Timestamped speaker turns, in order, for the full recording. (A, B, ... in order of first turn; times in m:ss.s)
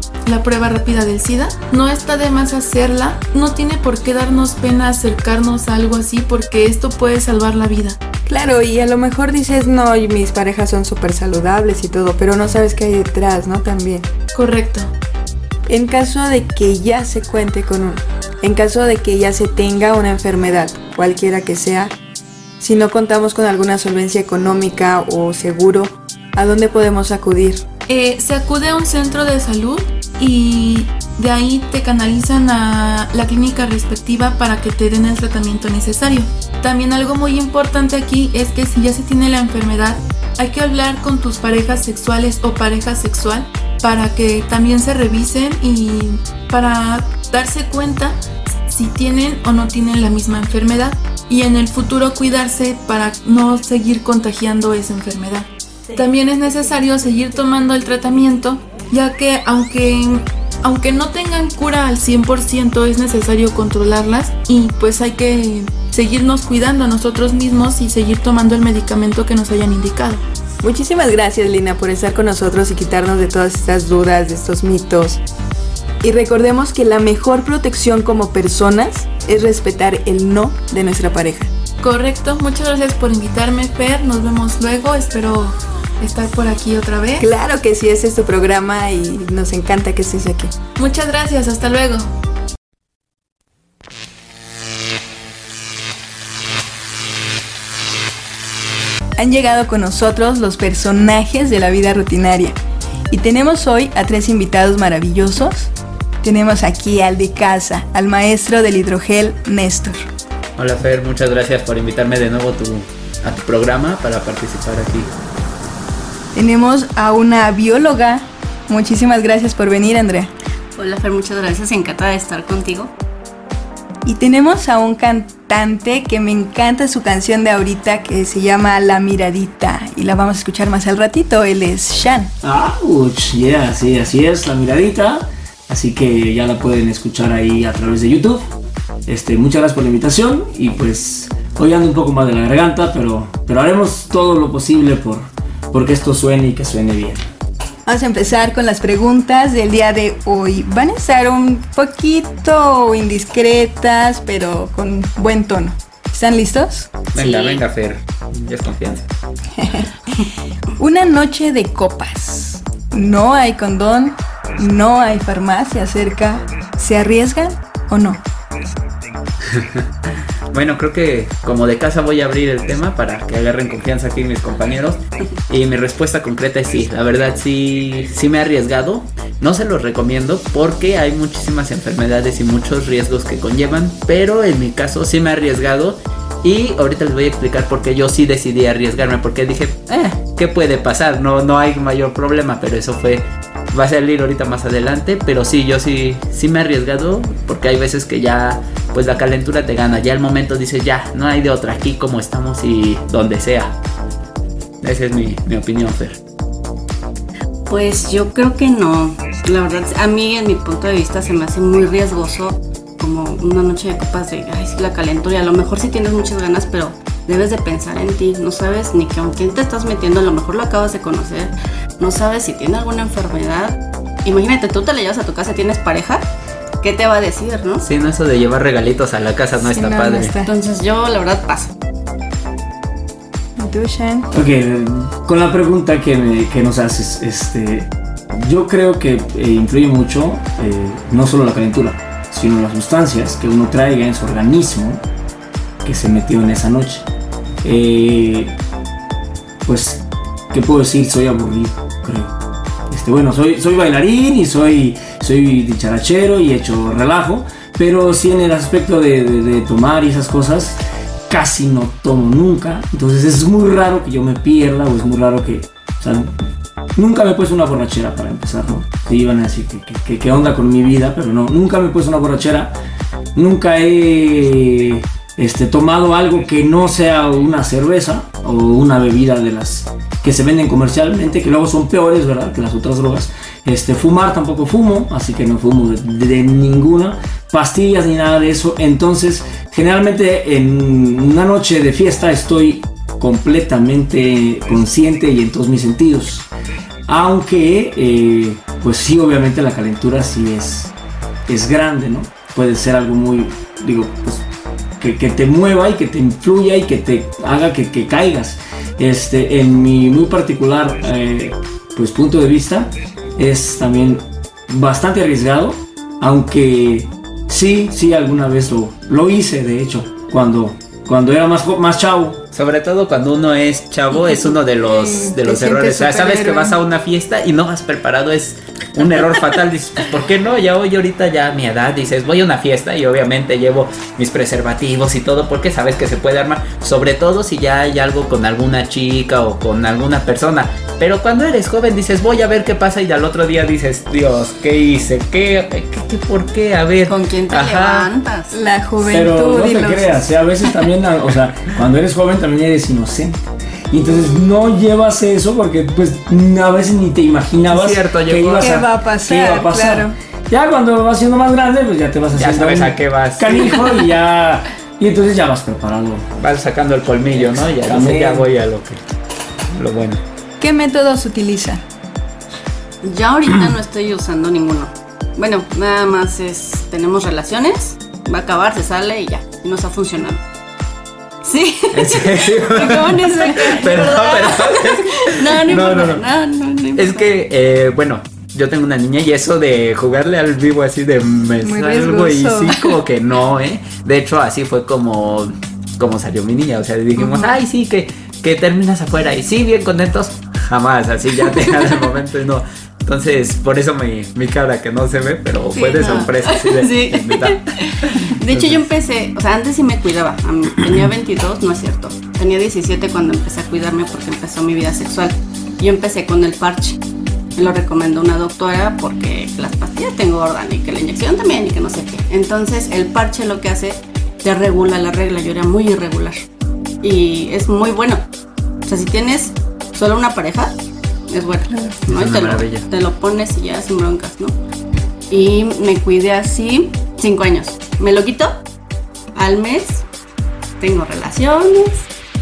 0:00.3-0:08.0 A
0:08.3-0:14.1 B
0:14.3-0:14.9 A
0:15.7-0:21.9 B
0:22.6-0:27.7 B
0:27.9-1:10.2 A
1:10.6-1:15.2 B
1:16.0-1:21.5 B
1:21.8-1:27.3 A
1:27.2-1:30.6 B
1:30.8-1:32.1 A
1:39.2-1:42.6 B
1:43.1-1:50.1 B
1:50.6-1:55.2 C
1:56.3-2:00.3 B
2:00.8-2:02.9 D
2:04.1-2:12.3 B
2:12.4-2:18.4 E
2:19.1-2:27.2 E
2:27.9-2:37.0 B
2:37.1-2:39.1 C
2:37.2-2:37.6 D
2:39.6-2:39.9 B
2:40.8-2:48.2 B
2:49.5-2:49.8 C
2:50.5-3:23.7 C
3:24.8-3:26.2 C
3:27.7-3:46.3 D
3:46.8-3:47.8 D
3:47.8-3:50.4 C
3:49.6-3:50.5 B
3:50.4-3:51.7 D
3:53.6-3:54.3 B
3:54.3-4:05.0 E
4:05.8-4:07.0 E
4:07.6-4:08.6 E
4:09.6-4:12.3 E
4:12.9-4:26.4 E
4:27.0-4:32.8 E
4:33.4-4:56.5 E
4:57.1-5:00.9 E
5:01.5-5:04.4 E
5:05.0-5:22.4 E
5:22.5-5:48.1 C
5:24.8-5:26.8 B
5:47.1-5:48.6 D
5:48.5-5:50.2 B
5:49.1-5:53.4 E
5:53.9-6:06.3 E
5:54.1-5:54.5 D
5:57.7-5:58.8 C
5:58.6-6:00.2 B
6:02.3-6:03.9 C
6:06.4-6:09.0 C
6:07.3-6:08.5 E
6:09.7-6:10.2 C
6:10.6-6:11.8 B
6:13.0-6:20.4 D
6:21.4-6:27.4 D
6:21.9-6:26.3 C
6:27.0-6:48.8 C
6:31.6-6:33.0 B
6:37.2-6:37.6 D
6:45.7-6:57.0 D
6:57.6-7:06.5 D
7:07.0-7:08.3 D
7:08.8-7:10.8 D
7:11.3-7:14.6 D
7:12.1-7:12.9 C
7:15.3-7:18.6 D
7:19.3-7:20.0 D
7:20.8-7:22.1 D